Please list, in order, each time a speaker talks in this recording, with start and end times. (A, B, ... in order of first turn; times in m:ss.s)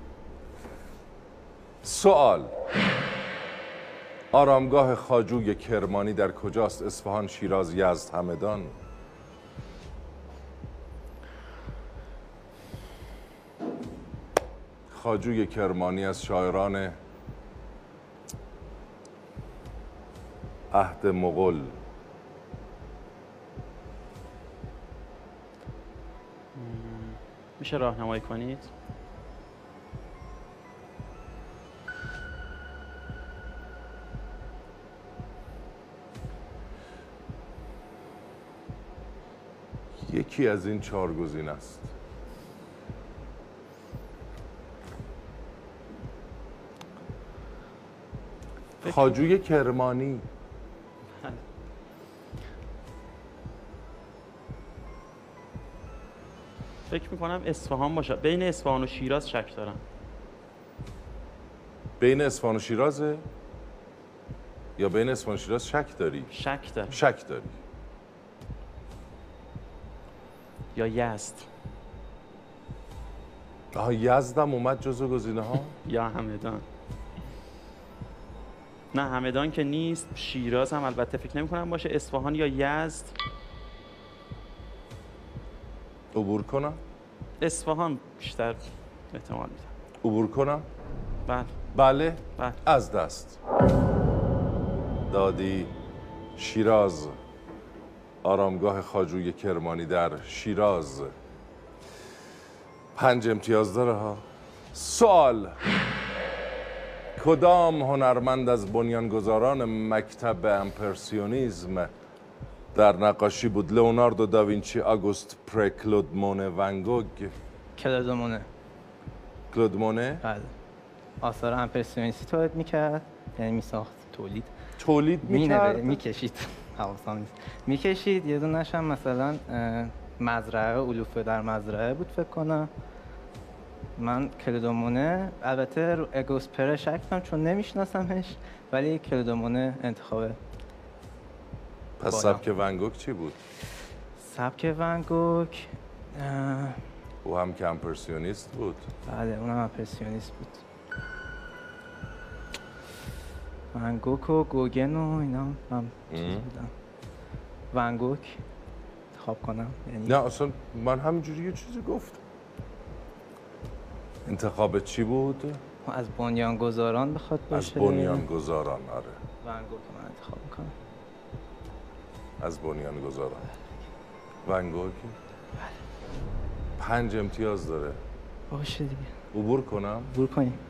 0:01.8-0:02.5 A
0:04.3-0:08.7 A
0:14.9-0:17.0 A
0:20.7-0:21.8 A
0:26.5-0:28.7 B
0:40.0-0:41.9 A
0:48.8-0:50.2 A
0:48.8-0:49.1 B
0:56.9-0:59.8 B
1:02.0-1:03.2 A
1:04.8-1:06.3 A
1:06.3-1:07.0 B
1:06.9-1:07.6 A
1:10.7-1:11.5 B
1:13.7-1:15.7 A
1:15.8-1:16.6 B
1:18.9-1:23.1 B
1:26.1-1:26.8 A
1:27.4-1:29.7 B
1:30.0-1:30.6 A
1:31.2-1:31.6 B
1:31.7-1:33.4 A
1:35.1-1:35.7 A
1:36.4-1:37.2 A
1:38.2-1:41.1 A
1:42.9-1:45.6 A
1:47.2-1:51.9 A
1:52.7-1:57.3 A
1:57.8-1:58.5 C
1:59.5-2:00.2 A
2:00.2-2:00.5 C
2:01.2-2:04.5 C
2:04.8-2:06.0 A
2:05.2-2:12.7 C
2:14.0-2:20.4 C
2:22.0-2:23.4 A
2:22.1-2:22.4 C
2:24.2-2:26.8 C
2:27.2-2:28.9 A
2:29.0-2:30.6 C
2:33.7-2:36.7 C
2:36.1-2:36.4 A
2:37.7-2:38.4 C
2:39.1-2:40.2 C
2:40.0-2:42.2 A
2:44.2-2:45.6 A
2:45.8-2:48.3 C
2:47.5-2:49.2 A
2:49.4-2:50.7 C
2:52.4-2:53.5 A
2:54.4-2:55.2 A
2:56.8-2:58.0 A
2:58.5-2:59.1 C
2:59.3-3:00.1 A
3:00.1-3:00.6 C